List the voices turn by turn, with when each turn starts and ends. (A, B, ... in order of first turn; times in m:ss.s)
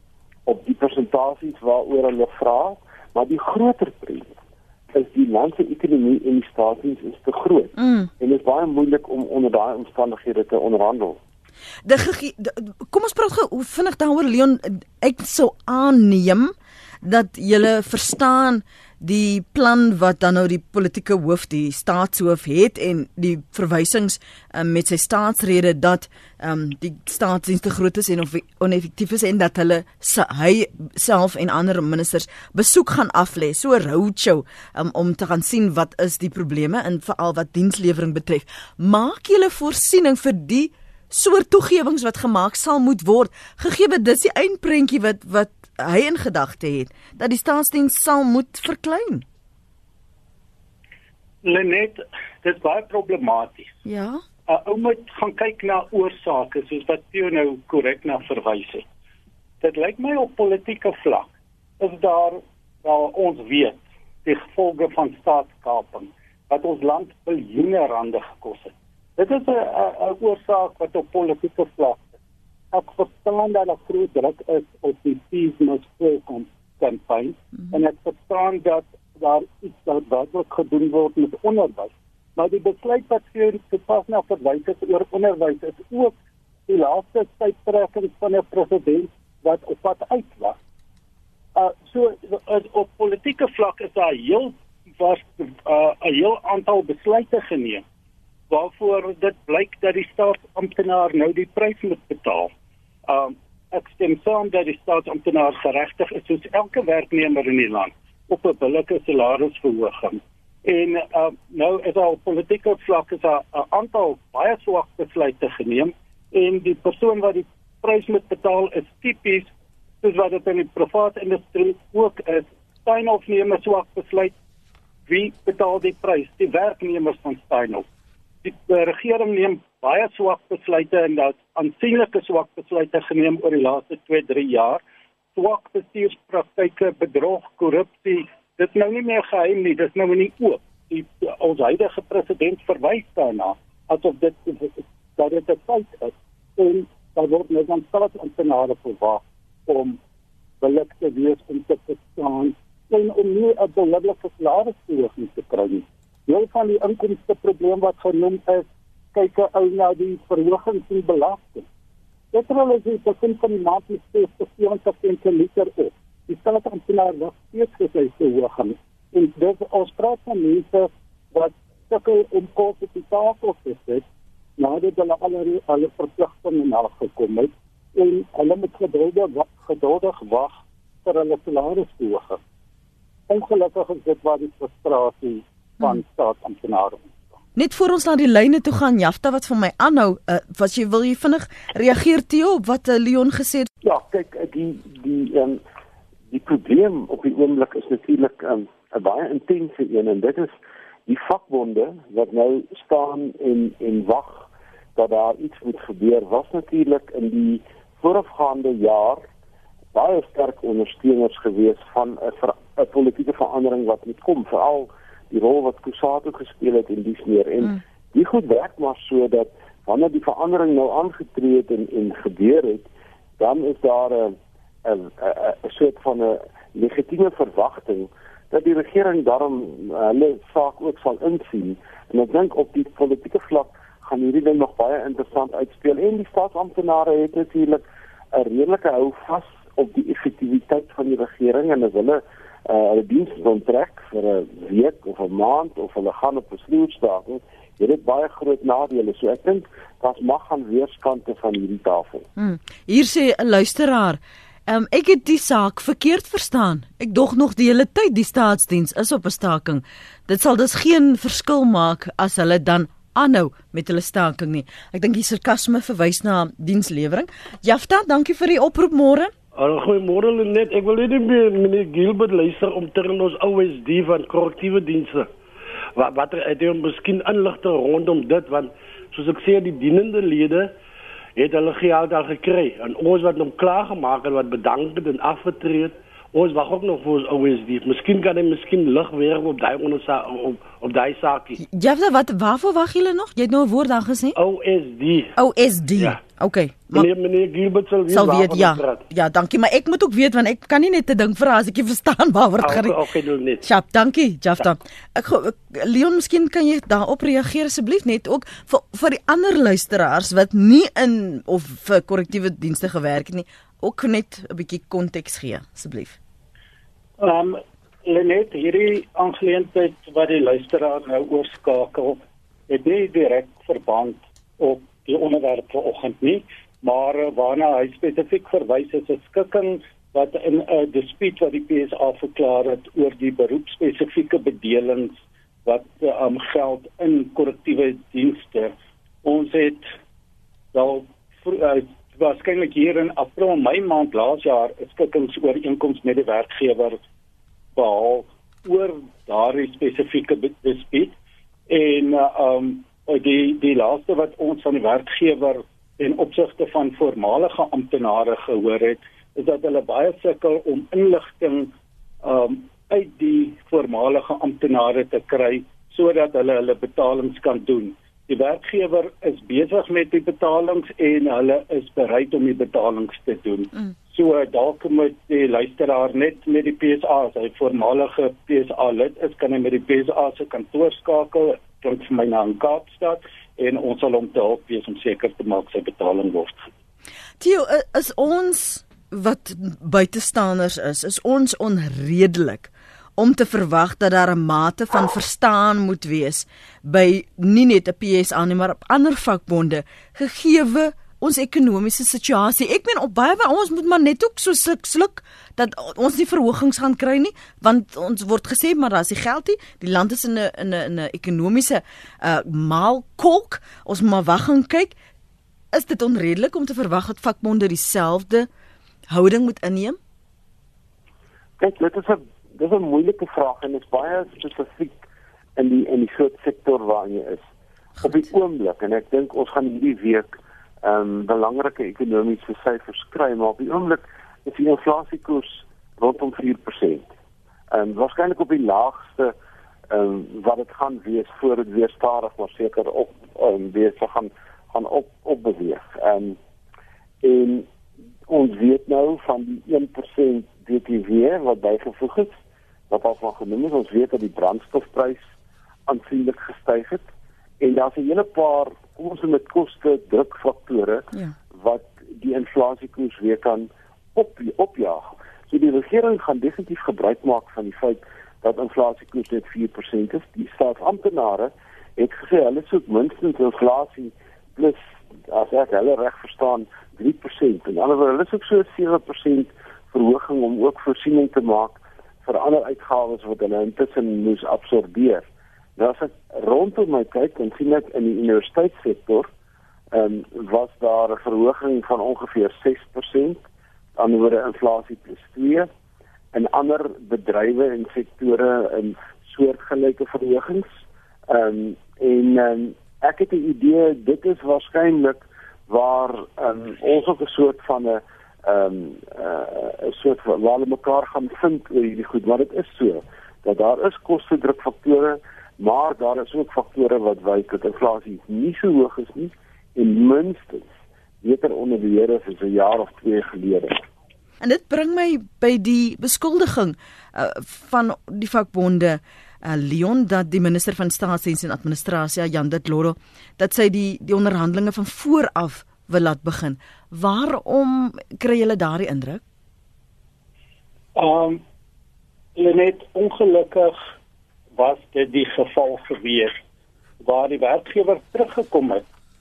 0:00.4-0:04.3 A
0:04.9-0:11.2 A
0:07.8-0:08.1 B
0:11.8-0:16.5 B
0:17.0-0:49.2 B
0:51.4-0:53.8 C
0:53.8-0:54.2 B
0:54.5-0:58.9 C
0:59.6-1:01.3 C
1:01.8-1:12.1 C
1:12.7-1:26.1 C
1:26.7-1:30.6 C
1:31.5-1:37.8 C
1:38.5-1:42.5 C
1:43.1-1:59.5 C
2:00.0-2:04.3 C
2:05.1-2:07.8 C
2:08.4-2:14.8 C
2:15.3-2:30.0 C
2:30.6-2:41.6 C
2:42.3-2:54.0 C
2:54.6-3:02.4 C
3:03.3-3:07.2 C
3:07.6-3:13.7 B
3:13.8-3:15.6 A
3:16.3-3:29.2 A
3:29.9-3:42.9 A
3:43.4-4:12.2 A
4:12.4-4:29.3 B
4:29.5-4:35.3 D
4:36.0-4:40.7 D
4:41.4-4:51.6 D
4:51.6-4:54.4 B
4:54.4-4:55.3 D
4:55.4-4:57.1 B
4:56.9-4:59.0 D
4:58.1-5:03.0 B
5:02.6-5:03.6 D
5:03.6-5:16.2 B
5:17.2-5:38.7 C
5:39.2-5:39.9 C
5:40.7-5:47.0 C
5:47.8-5:51.1 C
5:51.7-6:01.7 C
6:02.2-6:26.7 C
6:27.4-6:55.0 B
6:55.7-6:58.5 B
6:59.1-7:00.0 B
7:01.6-7:05.0 A
7:05.6-7:07.5 A
7:08.0-7:17.0 A
7:17.7-7:19.3 A
7:19.9-7:26.4 A
7:27.2-7:27.6 A
7:28.3-7:32.4 A
7:32.9-7:35.2 A
7:35.9-7:37.0 A
7:37.6-8:09.3 A
8:09.9-8:13.4 A
8:14.0-8:15.7 A
8:16.3-8:20.7 A
8:21.3-8:40.7 A
8:41.2-8:43.8 A
8:44.4-8:59.2 B
9:00.9-9:01.4 C
9:02.4-9:03.8 C
9:04.6-9:06.4 C
9:07.0-9:08.8 C